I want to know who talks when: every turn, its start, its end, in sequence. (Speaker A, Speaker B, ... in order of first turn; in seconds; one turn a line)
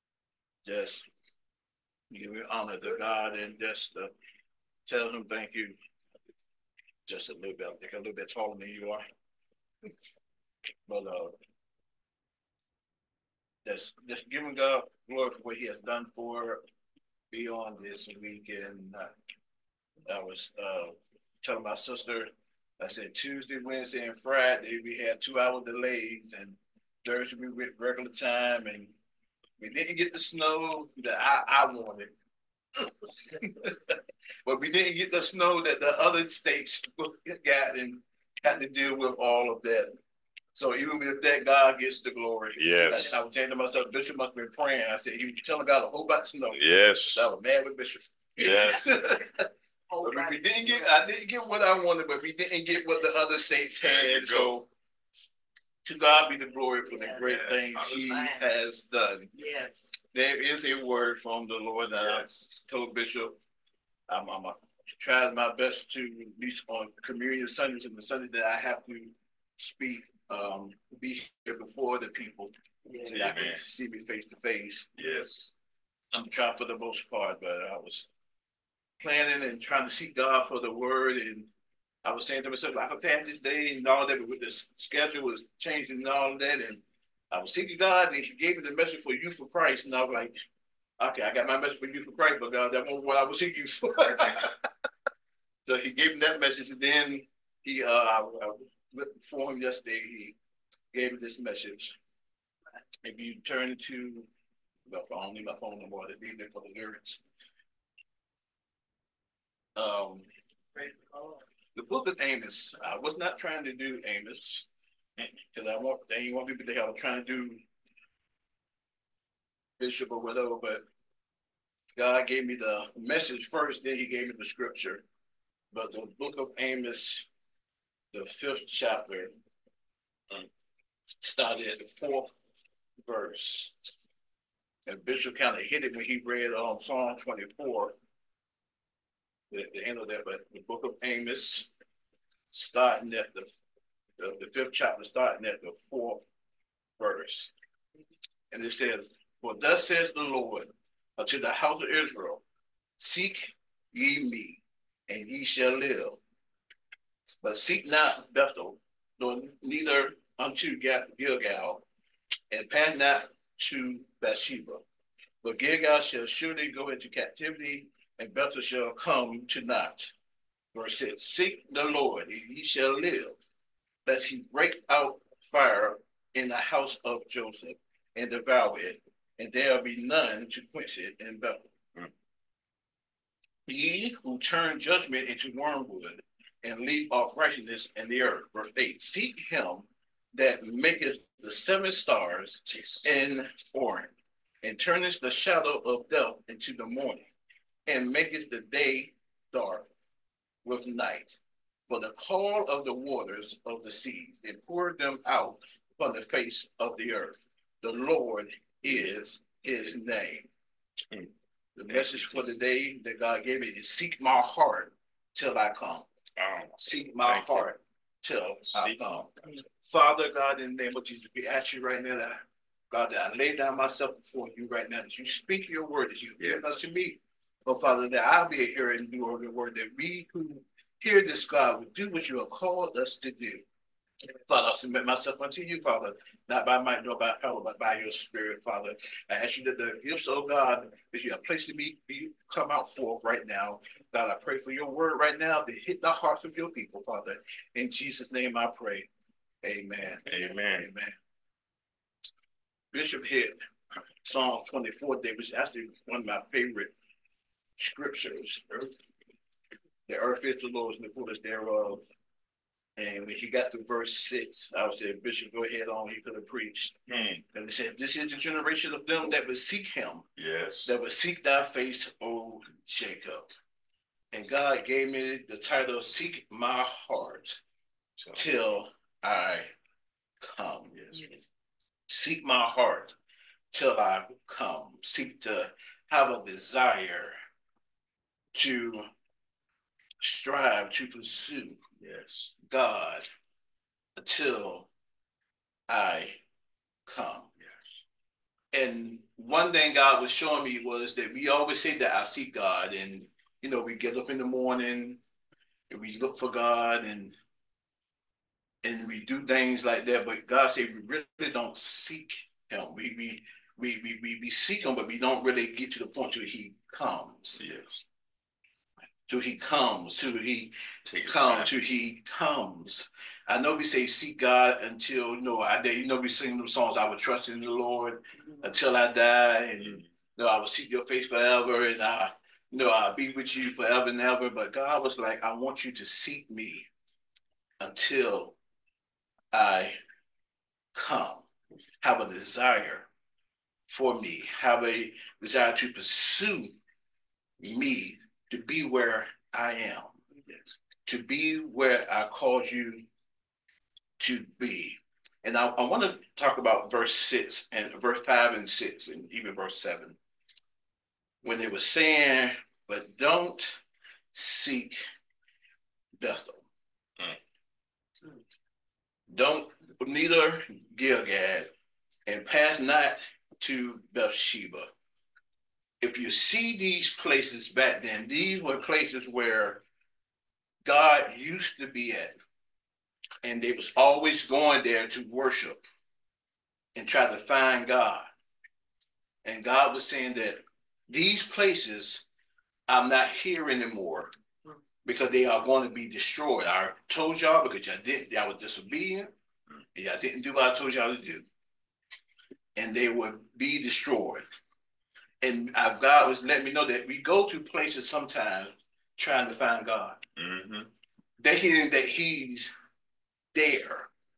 Speaker A: 0.6-1.1
Speaker A: 2.1-4.1
Speaker A: 4.8-5.8
Speaker A: 7.0-9.0
Speaker A: 10.9-11.3
Speaker A: 13.6-16.6
Speaker A: 17.3-19.1
Speaker A: 20.1-28.9
Speaker A: 29.6-32.1
Speaker A: 32.8-40.0
Speaker A: 40.5-49.5
Speaker B: 42.5-43.2
Speaker B: 46.5-47.2
Speaker B: 48.4-48.8
Speaker C: 49.9-50.9
Speaker A: 50.0-54.7
Speaker B: 53.8-54.5
Speaker A: 55.8-59.3
Speaker C: 56.9-58.4
Speaker B: 57.2-57.9
Speaker C: 59.3-60.0
Speaker A: 60.1-63.4
Speaker B: 62.0-62.5
Speaker A: 64.1-72.5
Speaker C: 72.9-73.2
Speaker B: 73.0-73.6
Speaker A: 73.1-74.9
Speaker B: 74.9-75.5
Speaker A: 76.1-78.1
Speaker A: 79.0-81.5
Speaker A: 82.0-90.3
Speaker A: 91.0-94.6
Speaker A: 95.7-100.4
Speaker A: 100.9-102.0
Speaker A: 103.0-104.3
Speaker A: 104.9-107.2
Speaker A: 109.8-110.2
Speaker C: 110.7-111.4
Speaker A: 111.7-114.7
Speaker A: 115.5-117.6
Speaker A: 119.8-120.8
Speaker A: 122.0-125.0
Speaker A: 125.7-127.3
Speaker A: 128.1-129.3
Speaker A: 131.2-132.3
Speaker A: 133.0-133.7
Speaker A: 134.8-137.9
Speaker A: 139.5-141.7
Speaker A: 142.5-143.6
Speaker A: 144.2-146.2
Speaker A: 147.0-147.5
Speaker A: 148.5-152.4
Speaker A: 153.0-156.2
Speaker A: 157.4-161.8
Speaker A: 162.5-164.8
Speaker A: 165.4-170.1
Speaker A: 170.7-173.4
Speaker A: 174.0-181.7
Speaker A: 183.7-197.3
Speaker B: 192.7-193.0
Speaker A: 197.9-199.9
Speaker A: 200.6-201.4
Speaker A: 201.9-210.5
Speaker A: 211.8-216.1
Speaker B: 211.9-212.5
Speaker B: 216.4-217.7
Speaker A: 216.8-233.6
Speaker B: 218.7-219.5
Speaker A: 234.5-249.1
Speaker A: 249.6-251.2
Speaker B: 250.2-250.9
Speaker A: 252.9-253.6
Speaker A: 254.2-256.9
Speaker A: 257.8-258.8
Speaker A: 260.1-262.1
Speaker A: 263.0-266.9
Speaker B: 267.1-267.4
Speaker A: 267.5-270.2
Speaker B: 270.4-270.9
Speaker A: 270.9-273.5
Speaker A: 274.3-277.6
Speaker B: 278.2-278.4
Speaker A: 278.3-279.7
Speaker A: 280.4-280.9
Speaker B: 280.9-281.3
Speaker A: 282.1-283.1
Speaker A: 283.7-287.3
Speaker A: 288.5-289.1
Speaker A: 290.2-291.8
Speaker B: 292.0-292.5
Speaker A: 292.6-293.2
Speaker A: 294.1-294.9
Speaker A: 295.9-296.4
Speaker A: 297.1-297.5
Speaker A: 298.7-305.2
Speaker A: 305.9-307.3
Speaker A: 308.8-317.6
Speaker B: 317.6-318.0
Speaker A: 319.3-320.7
Speaker B: 321.1-321.7
Speaker A: 321.2-336.9
Speaker B: 329.8-330.1
Speaker A: 337.8-338.6
Speaker A: 339.5-340.0
Speaker A: 340.9-341.4
Speaker A: 342.0-343.1
Speaker A: 343.9-346.7
Speaker A: 347.6-350.1
Speaker A: 351.1-353.1
Speaker A: 354.2-360.2
Speaker A: 361.4-363.8
Speaker A: 364.3-365.0
Speaker A: 366.2-366.6
Speaker A: 369.3-371.7
Speaker A: 372.3-374.9
Speaker A: 376.0-379.8
Speaker A: 380.8-382.4
Speaker A: 383.4-385.8
Speaker A: 386.9-388.3
Speaker A: 389.4-392.2
Speaker A: 392.9-394.3
Speaker A: 395.0-399.3
Speaker A: 399.9-401.4
Speaker A: 402.8-404.4
Speaker A: 405.4-410.2
Speaker B: 410.4-410.9
Speaker A: 411.4-412.7
Speaker A: 413.5-414.1